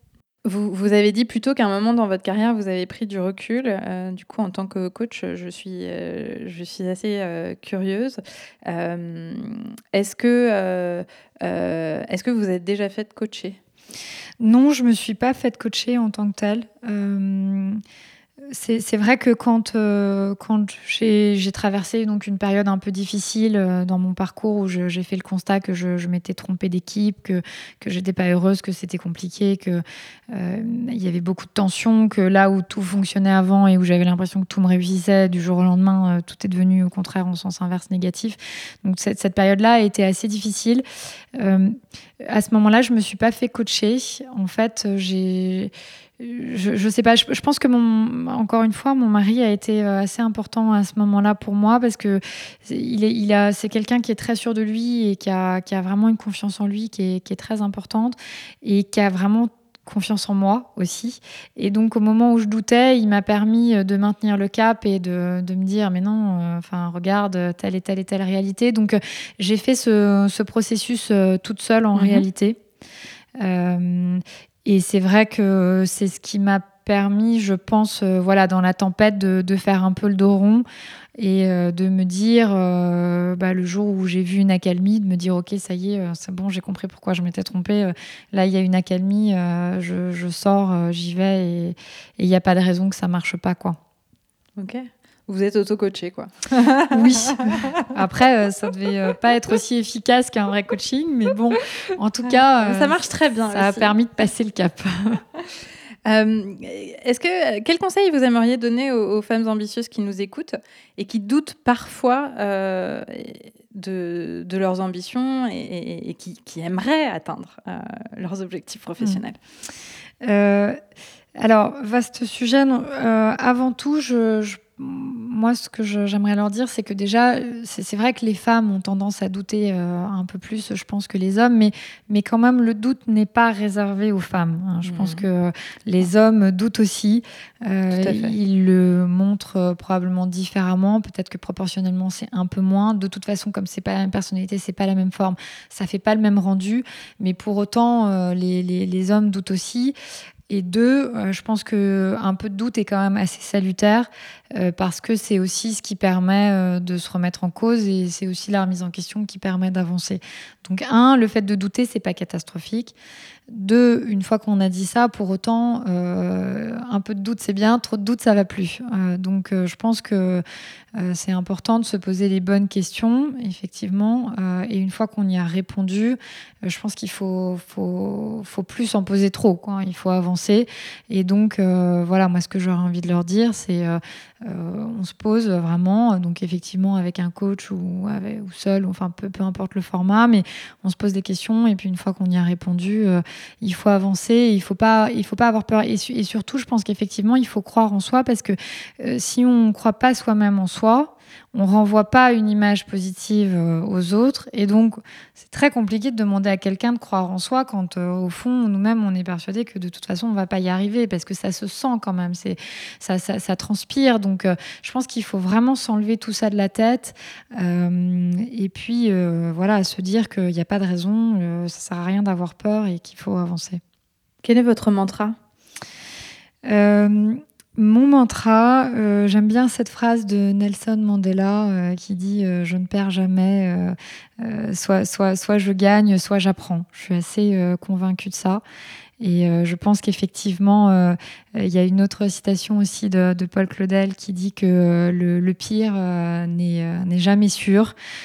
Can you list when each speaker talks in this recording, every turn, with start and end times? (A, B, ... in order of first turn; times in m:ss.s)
0:00.4-0:13.6 A
0:14.4-0:17.8 B
0:18.5-0:40.8 B
0:41.4-1:12.6 B
1:11.9-1:12.2 A
1:13.4-1:20.6 B
1:21.2-1:33.8 B
1:34.6-1:37.8 A
1:36.9-1:45.2 B
1:42.6-1:43.9 A
1:46.0-1:59.4 A
2:00.2-2:00.8 B
2:01.4-2:29.9 B
2:14.8-2:15.2 A
2:17.9-2:18.3 A
2:30.5-2:42.9 B
2:43.5-2:50.4 B
2:51.0-3:43.8 B
3:44.4-3:45.4 A
3:46.6-3:58.6 B
3:59.2-4:07.9 B